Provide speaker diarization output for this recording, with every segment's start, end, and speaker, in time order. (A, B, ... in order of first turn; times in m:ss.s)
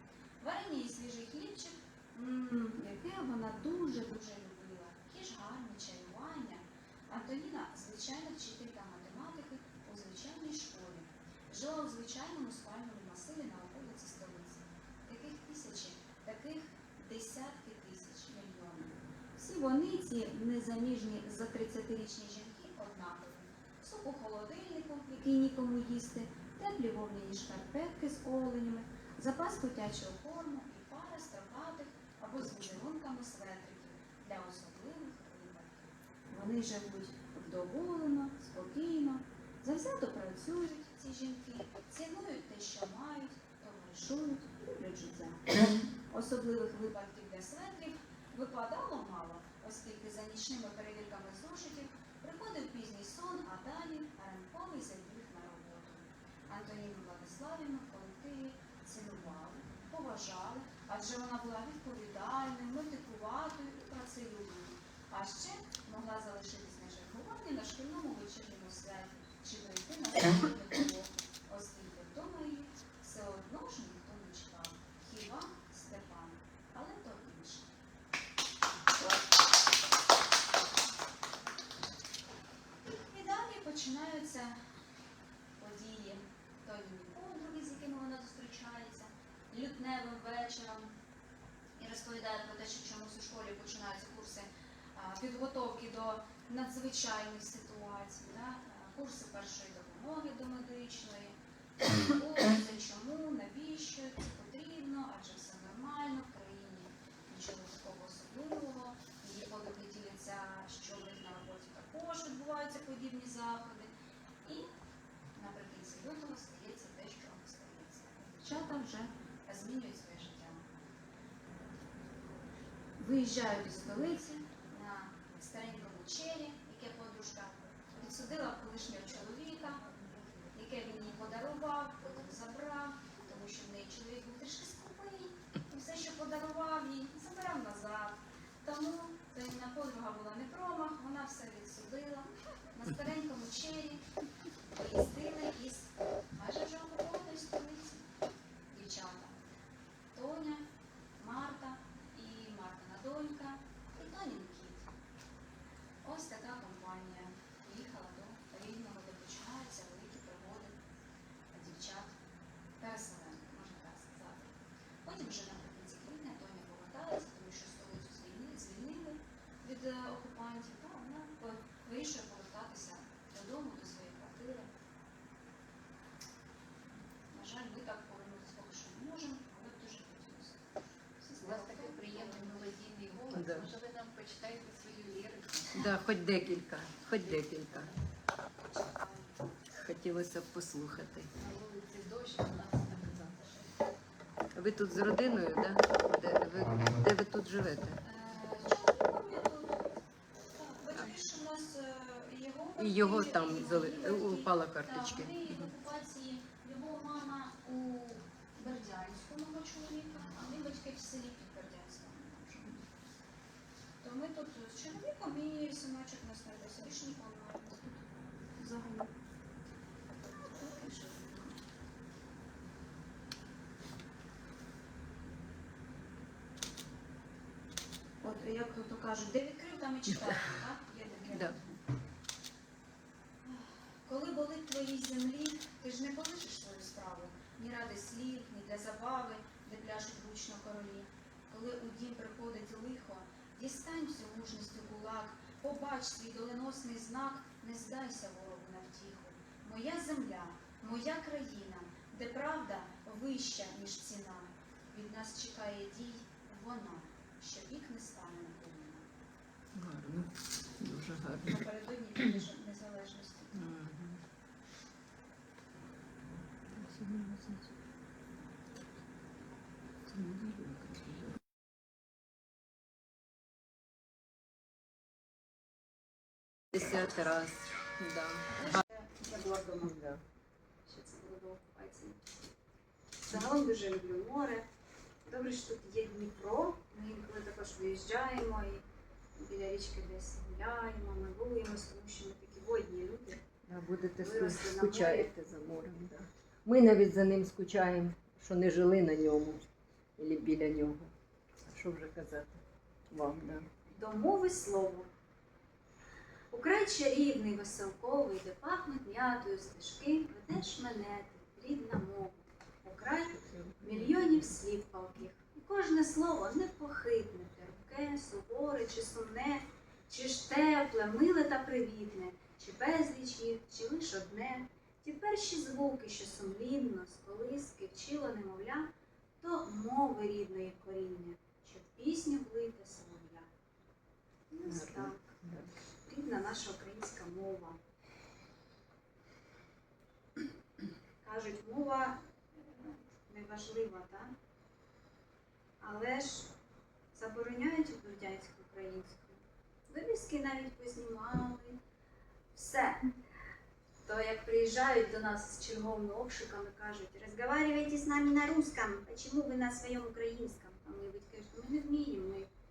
0:00.4-0:45.6 A
0:46.1-1:17.7 A
1:22.9-1:24.6 A
1:25.6-1:31.0 A
1:31.8-1:53.9 A
1:54.4-1:54.7 A
1:55.4-2:00.7 A
2:03.0-2:09.9 A
2:10.5-2:24.0 A
2:24.7-2:28.1 A
2:28.7-2:29.4 A
2:30.1-2:30.6 A
2:31.2-2:34.9 A
2:36.0-2:40.8 A
2:41.5-2:42.1 A
2:42.8-2:44.5 A
2:45.0-2:54.7 A
2:57.3-3:02.7 A
3:01.4-3:05.9 B
3:03.3-3:03.7 C
3:05.8-3:07.9 C
3:08.8-3:09.1 A
3:09.7-3:11.3 C
3:11.4-3:13.6 B
3:14.6-3:18.0 C
3:18.0-3:19.9 A
3:20.6-3:32.9 A
3:22.8-3:25.5 C
3:34.0-3:39.1 A
3:40.4-3:41.6 A
3:48.2-3:51.8 A
3:53.4-4:19.1 A
4:19.8-4:21.6 C
4:21.4-4:23.7 A
4:23.5-4:24.2 C
4:26.7-4:27.7 C
4:30.1-4:31.3 C
4:36.7-4:38.8 C
4:38.6-4:40.0 A
4:39.8-4:40.2 C
4:40.9-4:42.2 A
4:43.2-4:44.7 A
4:45.3-4:48.8 A
4:49.4-4:53.4 A
4:53.7-4:59.7 C
4:54.2-4:55.3 A
5:00.2-5:02.6 C
5:03.1-5:03.7 C
5:03.9-5:05.1 A
5:06.5-5:28.9 A
5:13.4-5:14.2 C
5:29.4-5:33.5 A
5:34.5-5:35.2 A
5:34.7-5:35.7 C
5:36.1-5:37.8 A
5:41.2-5:44.3 A
5:45.8-5:46.5 A
5:47.1-5:51.8 A
5:52.6-5:53.1 A
5:54.1-6:02.5 A